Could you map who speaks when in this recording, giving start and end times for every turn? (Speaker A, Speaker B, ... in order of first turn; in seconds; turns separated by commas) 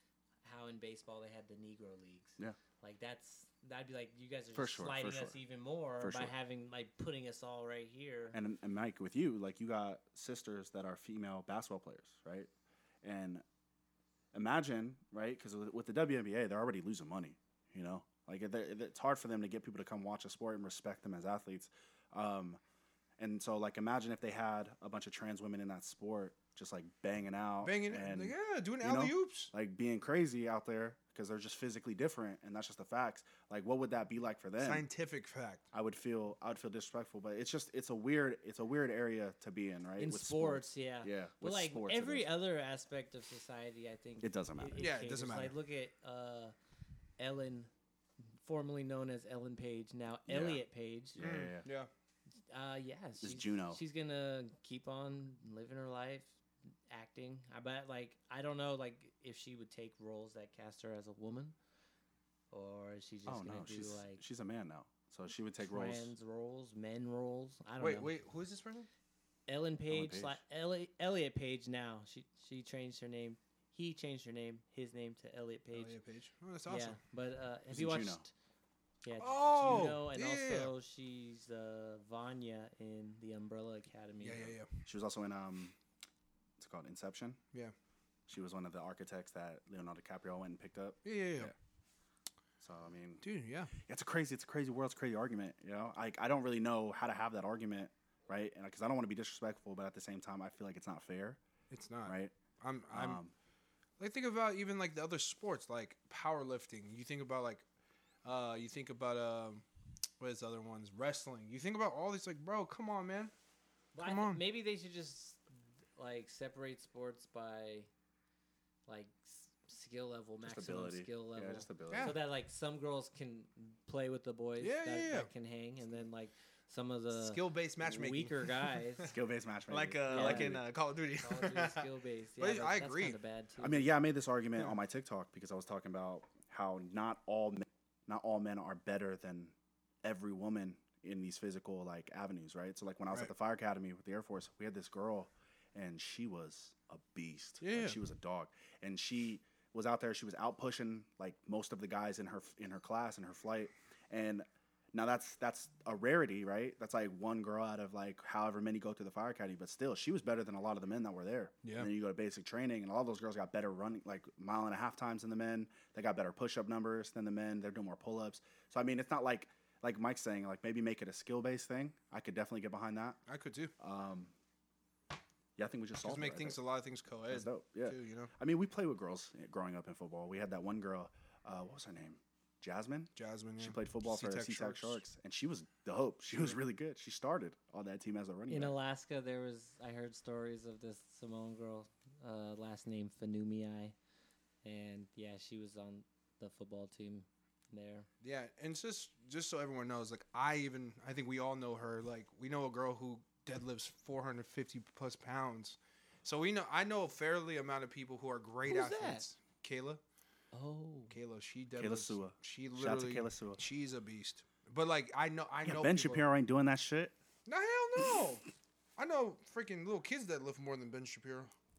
Speaker A: 0.4-8.4, Speaker B: 4.5-5.4, Speaker B: 6.0-6.3, Speaker B: 8.3-12.5, Speaker B: 13.0-13.4, Speaker B: 14.3-22.6, Speaker B: 23.2-34.9, Speaker C: 27.6-29.5, Speaker C: 34.6-35.7, Speaker B: 35.7-42.3, Speaker A: 40.0-46.5, Speaker B: 44.2-44.9, Speaker C: 44.8-45.5, Speaker A: 47.2-47.7, Speaker A: 48.4-51.2, Speaker B: 50.3-50.6, Speaker B: 51.1-51.7, Speaker C: 51.2-51.9, Speaker A: 52.5-56.3, Speaker B: 53.2-53.8, Speaker A: 56.9-61.5, Speaker A: 62.5-64.2, Speaker B: 63.3-66.1, Speaker A: 65.7-68.2, Speaker C: 67.8-68.9, Speaker A: 69.5-76.0, Speaker B: 69.9-70.4, Speaker C: 75.7-77.0, Speaker A: 76.7-78.3, Speaker B: 77.7-78.2, Speaker A: 79.0-84.5, Speaker C: 79.2-80.7, Speaker B: 79.7-79.9, Speaker C: 84.2-84.8, Speaker B: 84.8-85.8, Speaker B: 86.6-87.4, Speaker B: 88.3-91.5, Speaker C: 91.0-91.5, Speaker B: 92.6-93.2, Speaker C: 93.2-93.7, Speaker B: 93.8-101.4, Speaker C: 101.7-103.2, Speaker B: 102.0-102.3, Speaker B: 102.9-103.3, Speaker C: 104.0-107.7, Speaker C: 108.2-109.7, Speaker C: 110.2-113.3, Speaker A: 113.9-115.4, Speaker C: 114.0-114.4, Speaker A: 116.0-117.9, Speaker A: 118.9-129.1, Speaker B: 120.4-122.2, Speaker C: 121.9-122.2, Speaker C: 124.6-125.3, Speaker C: 127.1-129.2, Speaker B: 129.1-130.7, Speaker C: 129.7-133.2, Speaker A: 130.1-130.6, Speaker A: 131.2-133.9, Speaker B: 133.6-173.2, Speaker C: 147.6-148.0, Speaker C: 161.6-161.9, Speaker C: 173.3-173.7, Speaker B: 173.8-174.3, Speaker B: 175.6-176.6, Speaker C: 176.0-178.3, Speaker B: 177.3-188.8, Speaker C: 183.2-185.0, Speaker A: 188.5-193.9, Speaker A: 194.6-198.1, Speaker C: 198.2-210.0, Speaker A: 208.7-209.2, Speaker A: 210.5-211.1, Speaker C: 211.1-216.2, Speaker B: 211.8-213.6, Speaker B: 215.6-217.2, Speaker C: 217.5-221.5